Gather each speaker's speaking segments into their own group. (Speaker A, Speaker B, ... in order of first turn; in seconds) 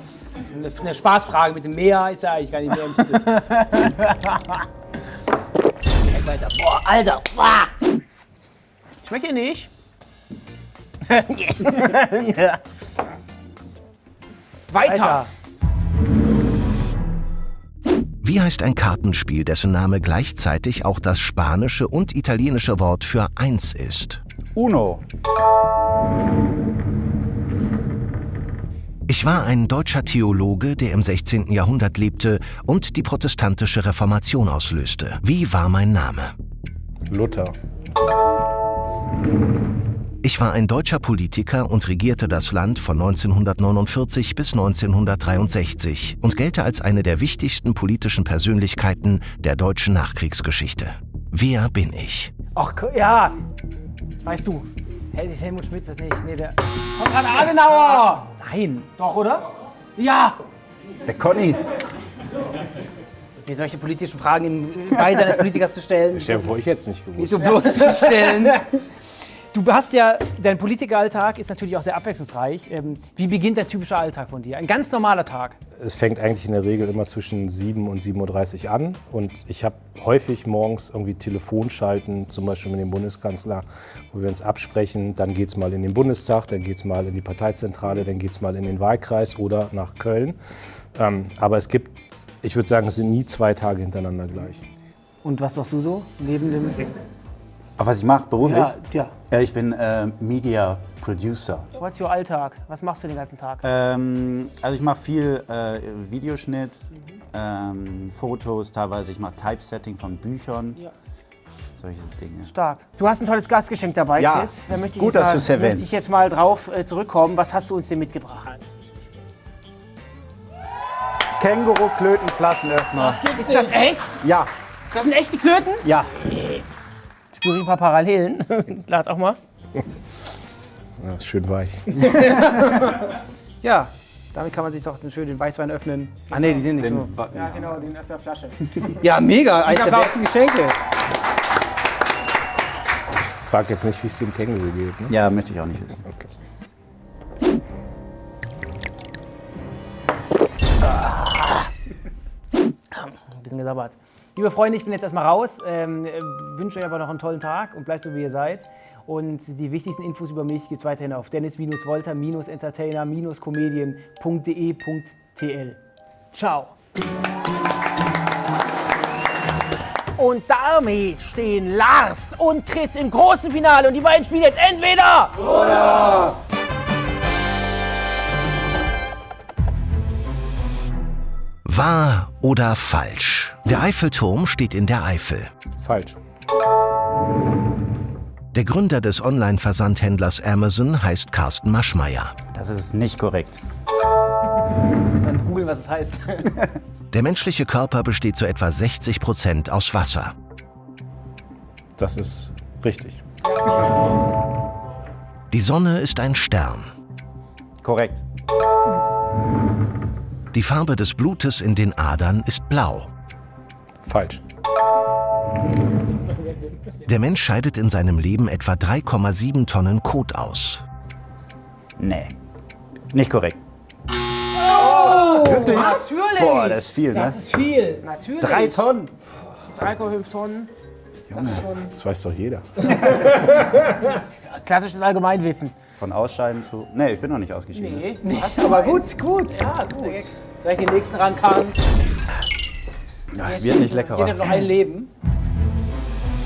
Speaker A: 0.5-3.4, 6.1-7.7, 14.7-15.3, 52.5-53.4, 55.1-59.5, 63.4-66.5, 67.2-68.7, 69.5-75.5, 95.2-96.9, 98.4-99.1, 132.0-132.9, 133.6-137.1, 138.8-140.8, 150.8-151.7, 152.9-165.8, 166.3-166.7, 195.1-196.7, 225.3-228.0, 238.2-241.8, 243.4-245.1
Speaker B: 3.4-4.1, 9.0-9.7, 11.1-12.6, 14.7-15.2, 54.2-54.7, 57.0-58.2, 60.0-60.4, 67.7-68.2, 98.5-99.1, 101.8-103.7, 112.5-118.6, 123.2-124.2, 124.9-125.8, 127.3-129.4, 136.3-136.7, 137.3-139.0, 139.6-140.2, 170.2-175.5, 224.7-226.4, 228.0-228.8, 229.7-230.7, 233.1-235.7, 237.7-240.3
Speaker C: 18.2-24.2, 29.1-36.3, 40.2-52.3, 181.6-185.5, 188.5-192.3, 197.1-200.3, 205.5-206.9, 210.5-213.1, 217.1-220.8
Speaker D: 24.5-25.0, 61.0-61.6, 97.8-98.7, 99.3-101.7, 103.6-110.8, 111.8-112.5, 114.2-115.9, 121.4-123.3, 124.2-124.5, 125.8-126.1, 136.7-137.8, 145.1-146.0, 192.5-193.6, 207.8-208.2, 222.0-222.3, 223.1-223.6, 224.8-227.5, 228.4-229.1, 231.3-231.7, 236.0-238.2, 243.3-244.6
Speaker E: 37.1-37.5, 66.1-67.7, 75.8-90.4, 90.9-94.6, 131.0-131.9, 143.1-145.2, 146.0-146.3, 185.8-186.2, 202.0-203.2, 214.0-214.4, 231.7-232.7